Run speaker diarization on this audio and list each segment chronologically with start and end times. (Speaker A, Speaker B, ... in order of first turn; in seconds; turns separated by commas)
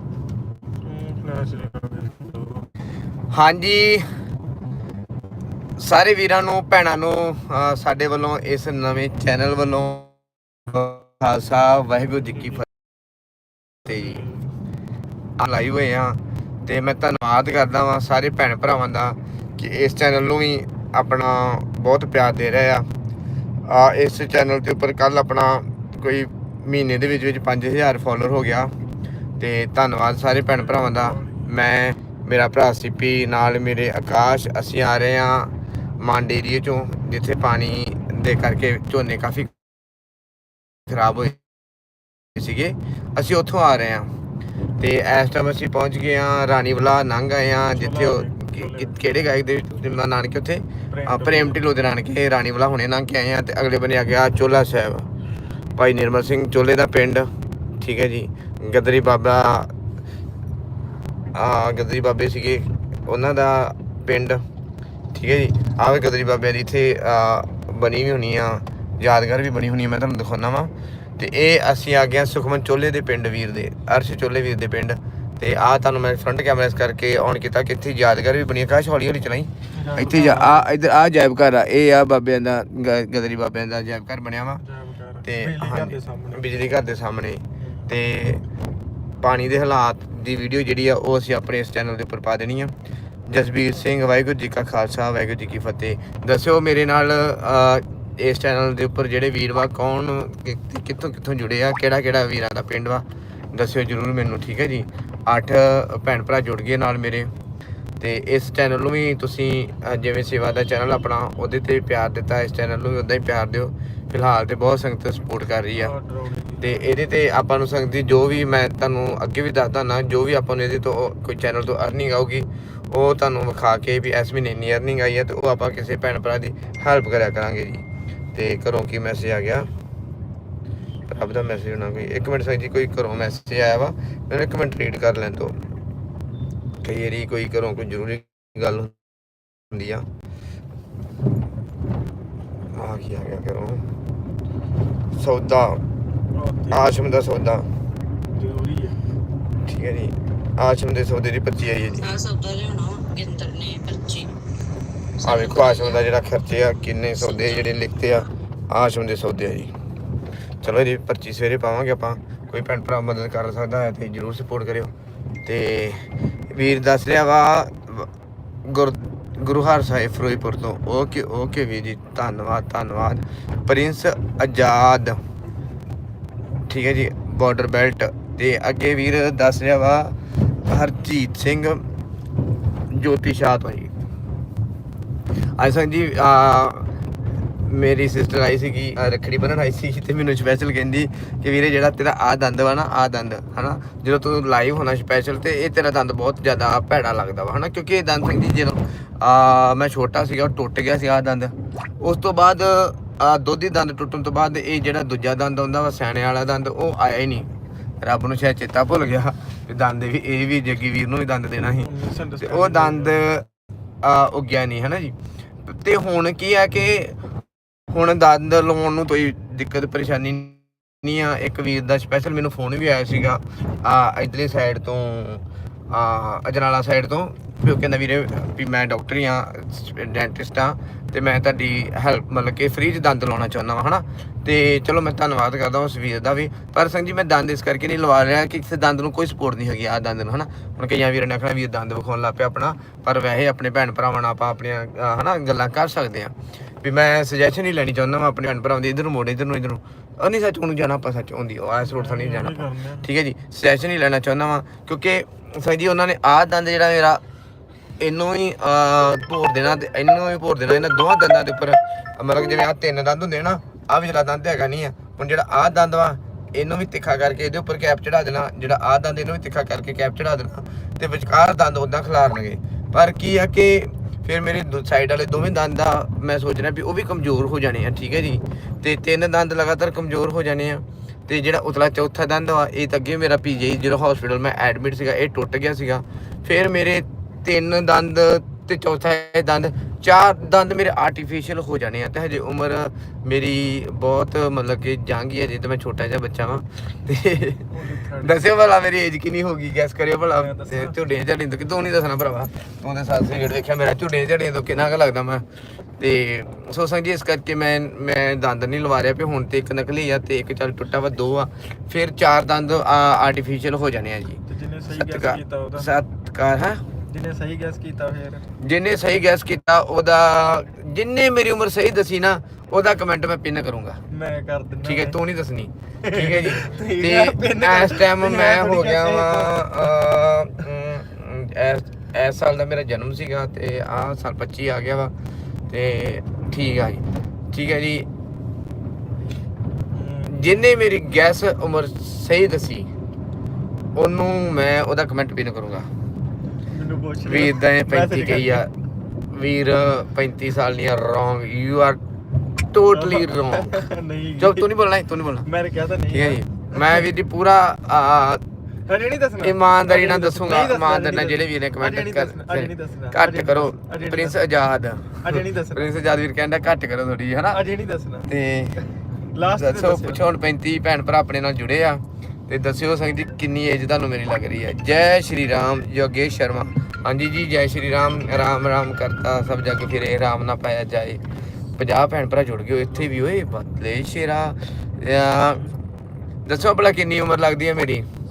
Speaker A: 0.8-2.7, Speaker B: 3.3-4.1, Speaker B: 5.8-10.1, Speaker B: 10.7-12.7, Speaker B: 13.8-14.3, Speaker A: 13.9-14.3, Speaker B: 15.4-22.9, Speaker B: 23.7-28.8, Speaker B: 29.4-39.5, Speaker A: 30.5-31.5, Speaker B: 40.9-41.4, Speaker B: 42.3-44.1, Speaker B: 44.8-55.1, Speaker A: 47.7-49.1, Speaker A: 50.9-51.6, Speaker B: 55.8-59.7, Speaker B: 61.3-64.4, Speaker B: 65.1-84.6, Speaker A: 79.7-80.7, Speaker A: 84.6-86.4, Speaker B: 85.2-88.4, Speaker A: 87.6-87.9, Speaker B: 89.2-92.7, Speaker B: 93.3-107.3, Speaker B: 108.0-115.9, Speaker A: 115.8-117.0, Speaker B: 116.6-129.7, Speaker B: 131.1-135.6, Speaker B: 136.8-138.9, Speaker B: 139.7-140.1, Speaker B: 142.7-143.8, Speaker B: 145.1-145.8, Speaker A: 146.3-146.9, Speaker B: 146.7-147.7, Speaker A: 148.3-149.0, Speaker B: 149.6-152.2, Speaker C: 152.1-154.3, Speaker B: 155.2-159.7, Speaker B: 160.6-164.9, Speaker B: 165.4-168.1, Speaker B: 168.7-175.2, Speaker B: 176.7-181.8, Speaker B: 182.9-183.9, Speaker B: 185.6-186.9, Speaker B: 187.6-207.5, Speaker B: 208.0-213.5, Speaker A: 211.6-213.2, Speaker B: 214.0-215.1, Speaker B: 215.7-217.2, Speaker B: 217.9-257.2, Speaker A: 251.8-253.1, Speaker B: 258.0-305.4, Speaker A: 297.7-298.4, Speaker A: 300.3-301.0, Speaker B: 306.0-314.4, Speaker A: 314.5-315.9, Speaker B: 314.9-316.8, Speaker A: 317.1-318.5, Speaker B: 318.6-324.0, Speaker A: 324.1-325.2, Speaker B: 324.8-335.1, Speaker A: 326.1-329.9, Speaker B: 335.7-338.1, Speaker A: 339.9-340.5, Speaker B: 340.3-342.9, Speaker B: 343.9-345.9, Speaker A: 346.7-348.7, Speaker B: 347.2-348.7, Speaker B: 349.3-352.0, Speaker B: 352.6-353.8, Speaker A: 352.9-354.7, Speaker B: 354.4-355.4, Speaker A: 355.4-357.1, Speaker B: 356.1-358.4, Speaker A: 358.9-364.4, Speaker B: 359.4-367.6, Speaker A: 365.2-365.9, Speaker A: 367.5-368.3, Speaker B: 368.3-368.9, Speaker A: 369.3-370.2, Speaker B: 369.5-381.2, Speaker B: 381.8-385.7, Speaker B: 386.4-388.1